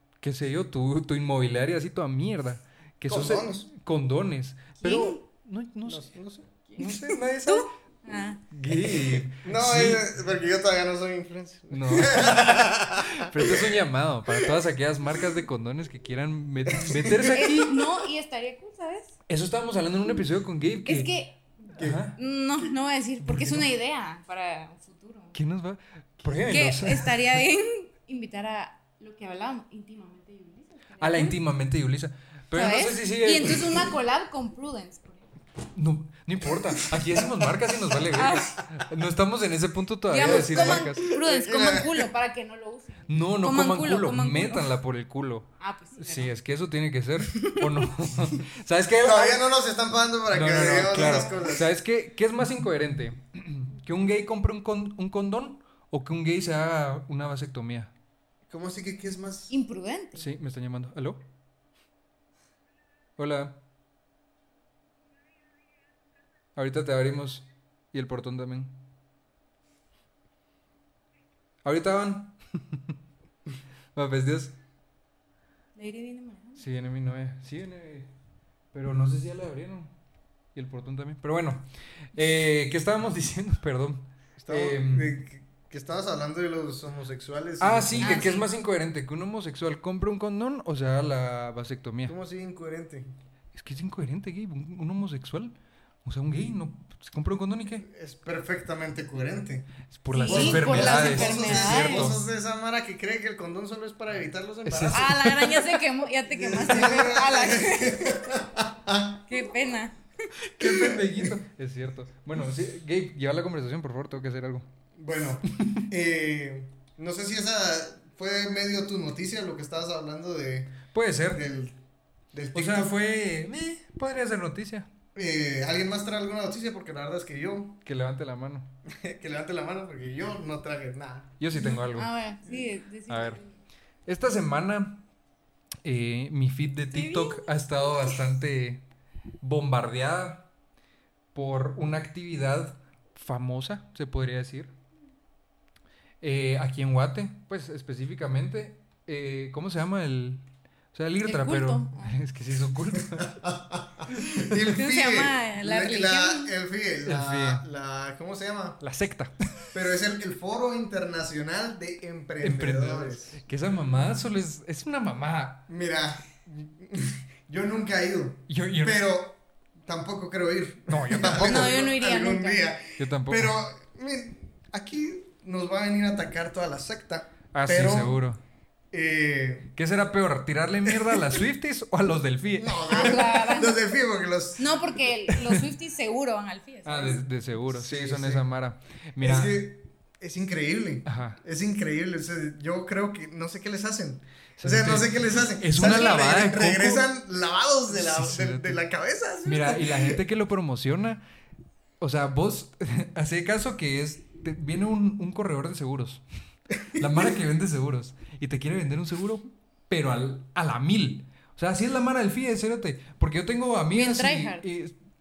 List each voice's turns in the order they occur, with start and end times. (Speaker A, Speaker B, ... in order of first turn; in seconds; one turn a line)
Speaker A: 0.2-6.0
Speaker B: 3.1-3.7
Speaker B: 4.8-5.2
Speaker C: 4.8-5.1
Speaker B: 5.9-6.7
Speaker A: 6.8-7.7
Speaker C: 6.8-8.4
Speaker A: 8.5-10.1
Speaker B: 8.7-13.8
Speaker A: 11.7-17.8
Speaker B: 16.7-17.5
Speaker C: 17.2-19.2
Speaker A: 19.3-21.1
Speaker C: 20.9-21.6
Speaker B: 21.8-22.1
Speaker A: 21.8-22.2
Speaker C: 22.2-25.3
Speaker A: 23.2-23.7
Speaker A: 25.3-27.4
Speaker C: 26.5-31.4
Speaker A: 31.0-33.8
Speaker C: 32.5-35.2
Speaker A: 35.8-41.1
Speaker C: 38.1-38.6
Speaker C: 40.1-44.7
Speaker B: 40.2-42.1
Speaker A: 43.1-49.4
Speaker C: 45.6-46.3
Speaker C: 47.3-47.9
Speaker B: 49.0-51.7
Speaker A: 50.3-57.9
Speaker C: 51.0-51.4
Speaker B: 58.5-59.5
Speaker C: 59.5-60.2
Speaker A: 60.1-61.2
Speaker A: 63.2-63.6
Speaker A: 66.6-68.8
Speaker A: 71.6-73.0
Speaker A: 74.0-74.5
Speaker C: 75.8-76.6
Speaker A: 76.6-78.1
Speaker A: 78.7-79.9
Speaker A: 80.5-85.2
Speaker B: 84.4-88.3
Speaker A: 87.6-92.2
Speaker C: 88.0-88.5
Speaker B: 92.1-93.1
Speaker A: 93.5-97.9
Speaker B: 97.9-99.7
Speaker A: 99.9-102.3
Speaker C: 100.1-102.2
Speaker B: 100.3-105.4
Speaker A: 104.7-105.6
Speaker C: 104.9-108.2
Speaker B: 106.3-109.2
Speaker C: 109.3-110.0
Speaker A: 110.4-114.7
Speaker B: 110.7-111.3
Speaker B: 115.0-121.8
Speaker A: 120.9-121.4
Speaker B: 122.3-122.9
Speaker A: 122.5-124.9
Speaker B: 125.2-127.8
Speaker A: 127.8-128.7
Speaker B: 128.9-131.3
Speaker A: 131.4-132.1
Speaker C: 131.5-133.5
Speaker A: 133.1-133.4
Speaker A: 134.1-135.0
Speaker A: 135.8-138.8
Speaker C: 136.9-137.5
Speaker A: 139.4-140.5
Speaker A: 141.3-144.7
Speaker A: 146.2-153.5
Speaker C: 151.2-152.2
Speaker B: 153.2-158.8
Speaker C: 154.7-156.5
Speaker A: 157.1-157.7
Speaker A: 158.8-159.3
Speaker B: 159.7-163.4
Speaker A: 162.4-165.7
Speaker B: 165.7-178.2
Speaker A: 168.5-169.1
Speaker A: 170.9-171.8
Speaker C: 171.4-172.7
Speaker A: 173.0-173.6
Speaker A: 177.5-178.4
Speaker B: 178.9-179.7
Speaker A: 179.8-182.9
Speaker B: 180.9-181.3
Speaker B: 182.6-184.8
Speaker C: 182.9-183.8
Speaker C: 184.6-187.2
Speaker A: 186.8-189.6
Speaker B: 187.7-188.4
Speaker B: 189.2-200.2
Speaker A: 191.1-191.4
Speaker A: 194.6-197.1
Speaker A: 197.9-198.8
Speaker A: 199.4-201.2
Speaker A: 202.0-206.2
Speaker A: 206.9-215.0
Speaker C: 214.0-214.7